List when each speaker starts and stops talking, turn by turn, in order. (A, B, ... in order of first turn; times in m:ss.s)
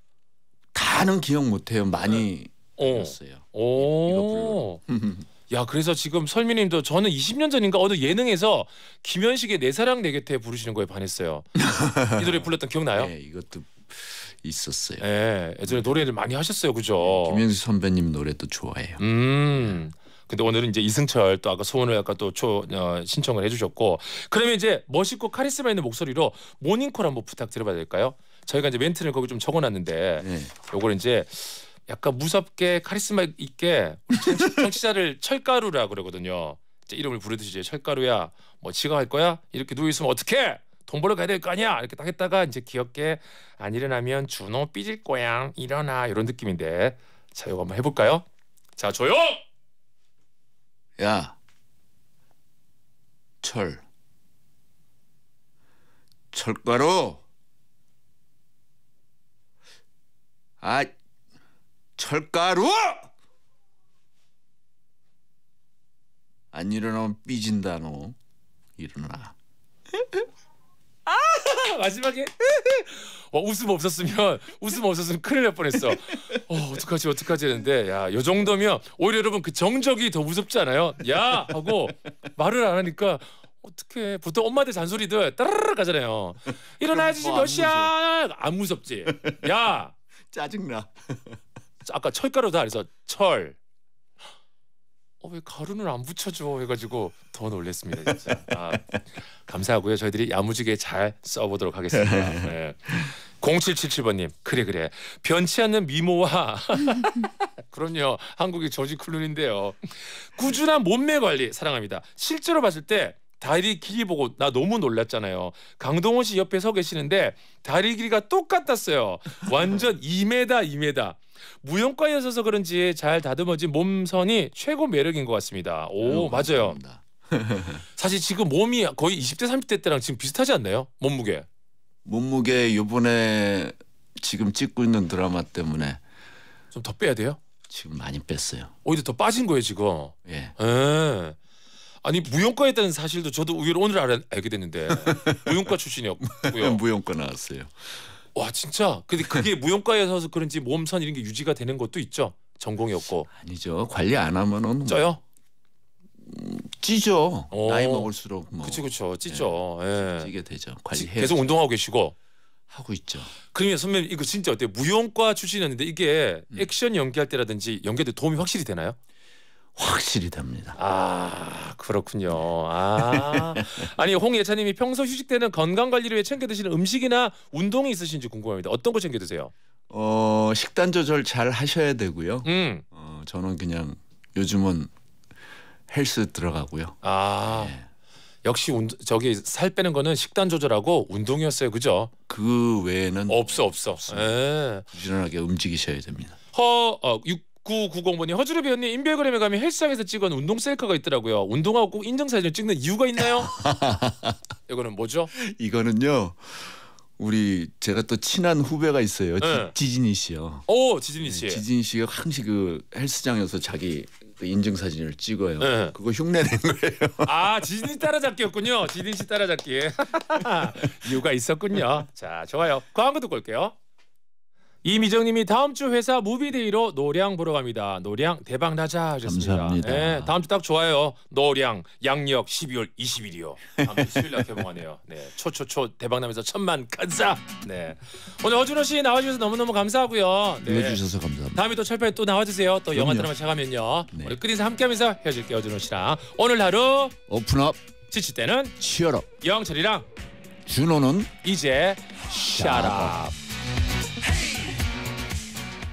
0:00.7-0:05.3 A
0:02.8-0:04.8 B
0:05.5-0:11.5 B
0:11.6-0:15.1 A
0:12.1-0:13.1 B
0:15.0-0:17.4 B
0:15.6-0:16.0 A
0:17.0-0:19.0 A
0:19.0-0:48.2 B
0:30.2-0:30.5 A
0:34.2-0:34.6 A
0:48.8-0:49.4 B
0:51.0-0:51.4 A
0:53.4-0:53.8 A
0:56.3-0:57.2 A
1:00.6-1:00.9 A
1:02.0-1:03.1 A
1:06.5-1:08.2 A
1:08.8-1:09.4 A
1:11.1-1:29.9 B
1:26.8-1:27.9 A
1:29.0-1:29.5 A
1:30.3-1:31.4 A
1:31.8-1:33.6 B
1:35.2-1:38.8 B
1:38.1-1:38.4 A
1:39.4-2:06.8 B
1:41.9-1:43.1 A
2:06.0-2:07.8 A
2:08.0-2:11.5 B
2:12.0-2:16.0 A
2:16.7-2:17.4 B
2:17.7-2:18.7 A
2:18.8-2:21.4 B
2:20.2-2:20.5 A
2:22.0-2:26.8 B
2:24.9-2:25.7 A
2:26.2-2:28.0 A
2:28.4-2:33.3 B
2:33.3-2:35.2 A
2:34.9-2:35.2 B
2:36.2-2:41.4 A
2:37.5-2:40.3 B
2:40.9-2:42.2 B
2:42.7-2:43.3 A
2:43.5-2:49.0 B
2:49.8-2:50.8 A
2:50.8-2:59.5 B
2:53.0-2:53.9 A
2:59.9-3:04.9 A
3:02.4-3:02.8 B
3:05.9-3:07.9 A
3:07.0-3:07.8 B
3:08.4-3:12.1 B
3:12.3-3:16.4 A
3:13.3-3:14.9 B
3:16.5-3:23.5 B
3:23.2-3:24.4 A
3:24.7-3:25.3 B
3:25.3-3:30.7 A
3:29.4-3:29.7 B
3:30.7-3:31.6 B
3:31.2-3:37.4 A
3:35.6-3:36.0 B
3:37.2-3:43.8 B
3:44.8-4:01.0 B
3:49.2-3:50.4 A
3:53.8-3:54.2 A
4:00.6-4:01.6 A
4:01.5-4:07.2 B
4:02.9-4:03.3 A
4:04.1-4:04.4 A
4:07.3-4:07.8 A
4:08.1-4:08.7 B
4:08.8-4:09.3 A
4:09.4-4:10.1 B
4:10.7-4:11.3 A
4:11.4-4:13.3 B
4:12.4-4:13.3 A